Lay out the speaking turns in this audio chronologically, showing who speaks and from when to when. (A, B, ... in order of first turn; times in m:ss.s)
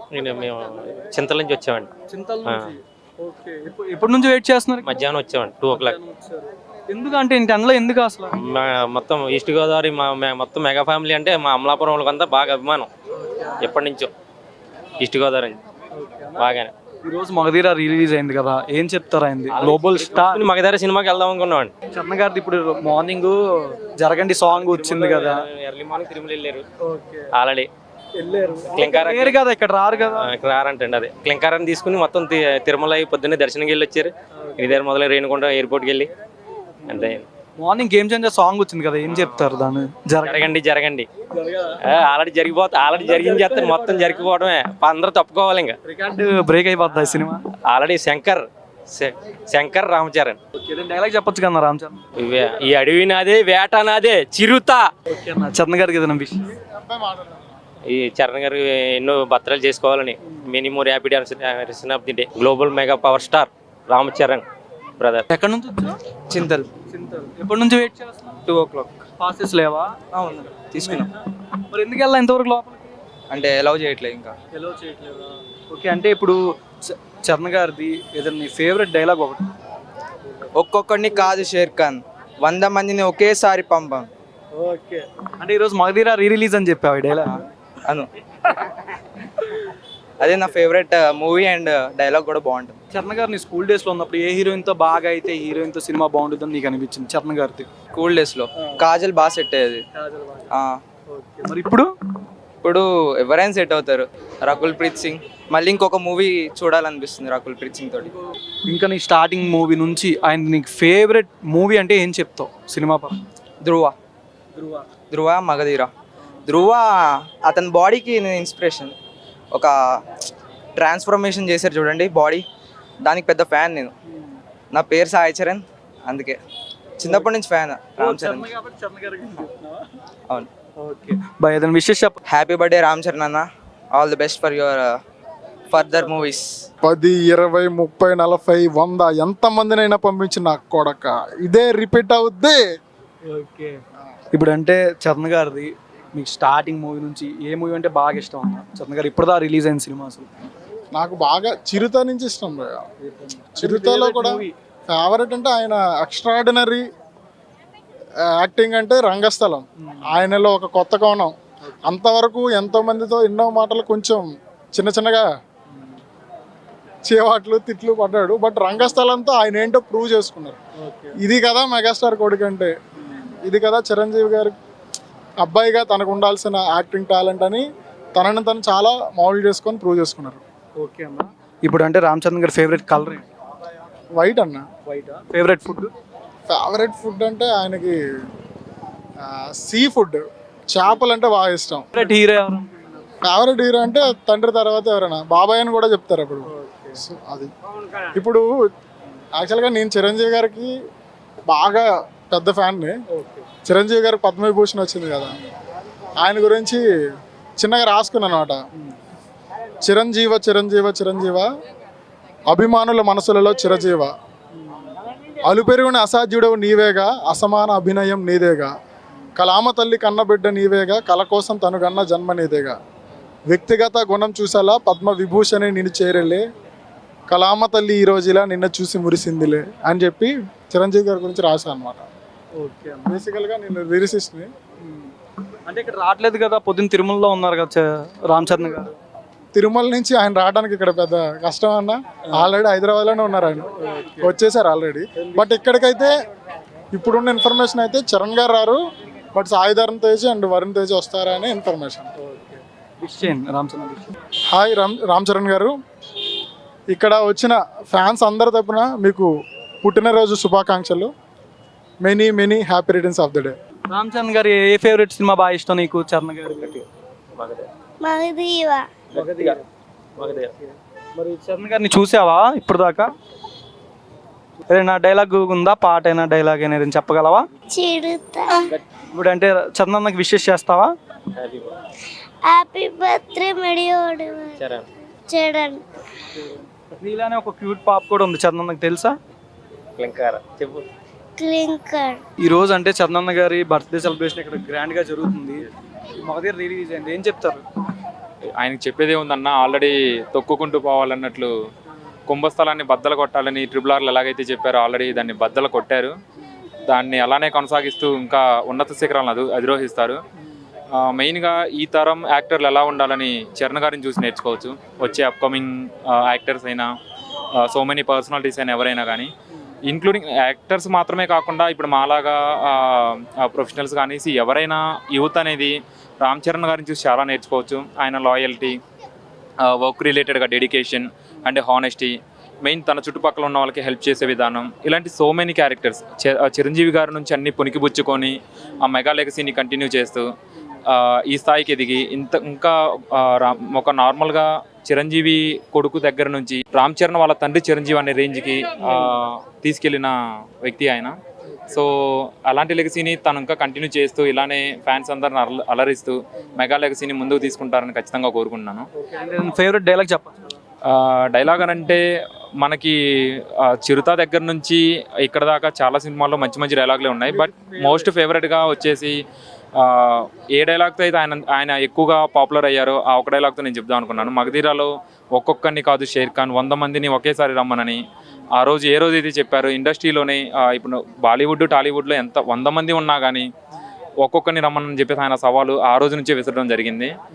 0:00.1-0:01.9 A
0:02.1-0:05.0 B
0:04.8-0:06.0 A
0:05.7-0:08.4 B
0:08.4-0:12.9 A
0:13.2-0:13.7 B
0:13.6-0:14.1 A
0:15.0-0:15.6 A
0:15.9-0:20.5 B
0:16.4-0:16.7 A
0:19.6-0:21.7 A
0:21.9-0:25.4 B
0:24.6-0:26.6 A
0:26.8-0:27.3 B
0:27.3-0:27.7 A
0:28.2-0:30.3 B
0:28.7-0:29.4 A
0:30.0-0:36.1 A
0:34.4-0:34.7 B
0:36.8-0:40.5 B
0:36.9-0:37.2 A
0:40.2-0:41.1 A
0:41.4-0:41.7 B
0:41.9-0:45.8 A
0:43.0-0:44.2 B
0:45.8-0:47.4 B
0:47.7-0:50.4 A
0:50.6-0:52.0 B
0:52.2-0:54.9 A
0:55.1-0:56.5 B
0:56.8-0:57.4 C
0:57.9-1:04.4 A
1:05.0-1:05.2 A
1:05.3-1:06.0 B
1:06.3-1:06.7 D
1:06.9-1:08.4 B
1:08.5-1:09.0 D
1:09.2-1:10.0 B
1:10.1-1:11.1 D
1:10.8-1:11.2 B
1:11.7-1:13.0 B
1:13.3-1:14.4 D
1:14.5-1:19.5 B
1:20.6-1:24.1 D
1:24.5-1:27.4 B
1:30.2-1:32.8 D
1:32.9-1:37.7 B
1:37.9-1:39.8 D
1:39.9-1:40.5 B
1:40.5-1:40.8 D
1:41.1-1:41.9 B
1:42.6-1:48.1 D
1:48.7-1:53.2 B
1:53.6-1:53.9 D
1:54.6-1:54.9 B
1:55.1-1:55.9 D
1:56.5-1:56.9 D
1:57.4-1:58.9 D
2:00.8-2:02.4 D
2:03.0-2:03.9 D
2:04.1-2:04.4 B
2:04.7-2:06.4 D
2:07.0-2:08.5 D
2:07.0-2:07.3 B
2:08.0-2:09.9 B
2:10.8-2:12.2 B
2:12.3-2:15.0 D
2:15.7-2:16.5 D
2:16.8-2:22.6 C
2:23.2-2:23.8 B
2:24.3-2:30.3 B
2:30.9-2:32.8 C
2:33.0-2:34.5 B
2:33.6-2:36.8 C
2:38.3-2:41.4 C
2:39.8-2:40.2 B
2:41.9-2:45.3 C
2:45.7-2:46.0 B
2:47.1-2:50.6 C
2:50.8-2:51.2 B
2:51.2-2:52.7 C
2:53.0-2:53.3 B
2:53.4-2:54.6 C
2:55.4-2:57.6 C
2:58.2-3:00.4 C
3:00.8-3:03.3 B
3:04.2-3:04.6 C
3:04.9-3:05.9 B
3:06.5-3:08.0 C
3:09.2-3:11.9 C
3:11.9-3:13.0 B
3:13.2-3:17.5 C
3:16.5-3:17.0 B
3:18.2-3:18.4 C
3:19.4-3:20.7 C
3:21.5-3:22.9 C
3:23.1-3:23.5 B
3:23.6-3:25.4 C
3:26.2-3:26.8 C
3:27.6-3:28.6 C
3:29.8-3:31.5 C
3:32.5-3:34.1 C
3:34.6-3:34.9 B
3:35.4-3:38.7 C
3:39.4-3:42.8 C
3:43.5-3:46.4 C
3:47.3-3:52.1 C
3:52.6-3:53.2 B
3:53.1-3:54.5 C
3:54.8-3:55.1 B
3:55.7-3:59.0 B
3:59.5-4:03.7 C
4:03.7-4:04.4 B
4:04.2-4:06.1 C
4:05.2-4:05.5 B
4:06.9-4:08.8 C
4:09.3-4:12.1 C
4:12.2-4:14.1 B
4:14.5-4:15.7 C
4:16.9-4:19.3 C
4:19.8-4:21.1 C
4:22.0-4:23.5 C
4:23.9-4:26.8 B
4:26.6-4:26.8 A
4:27.4-4:27.7 A
4:28.0-4:29.0 E
4:29.1-4:29.6 A
4:29.1-4:29.6 B
4:30.2-4:30.5 A
4:30.2-4:33.1 B
4:34.7-4:37.4 B
4:37.7-4:38.6 E
4:39.1-4:40.9 B
4:41.4-4:41.7 A
4:42.4-4:44.6 E
4:44.6-4:44.9 A
4:45.3-4:45.8 E
4:46.3-4:49.2 B
4:50.0-4:50.8 A
4:51.4-4:52.2 E
4:52.4-4:55.7 B
4:56.2-4:57.6 B
4:58.6-5:01.5 F
5:02.3-5:06.1 F
5:06.9-5:10.2 F
5:10.9-5:16.9 F
5:17.6-5:19.3 F
5:19.9-5:28.8 F
5:29.6-5:40.3 F
5:40.9-5:51.2 F
5:51.5-5:51.8 B
5:51.7-5:58.9 F
5:59.0-6:00.6 B
6:00.9-6:02.0 F
6:02.6-6:09.2 F
6:07.3-6:08.1 B
6:09.8-6:18.0 F
6:18.6-6:23.5 F
6:24.2-6:27.1 F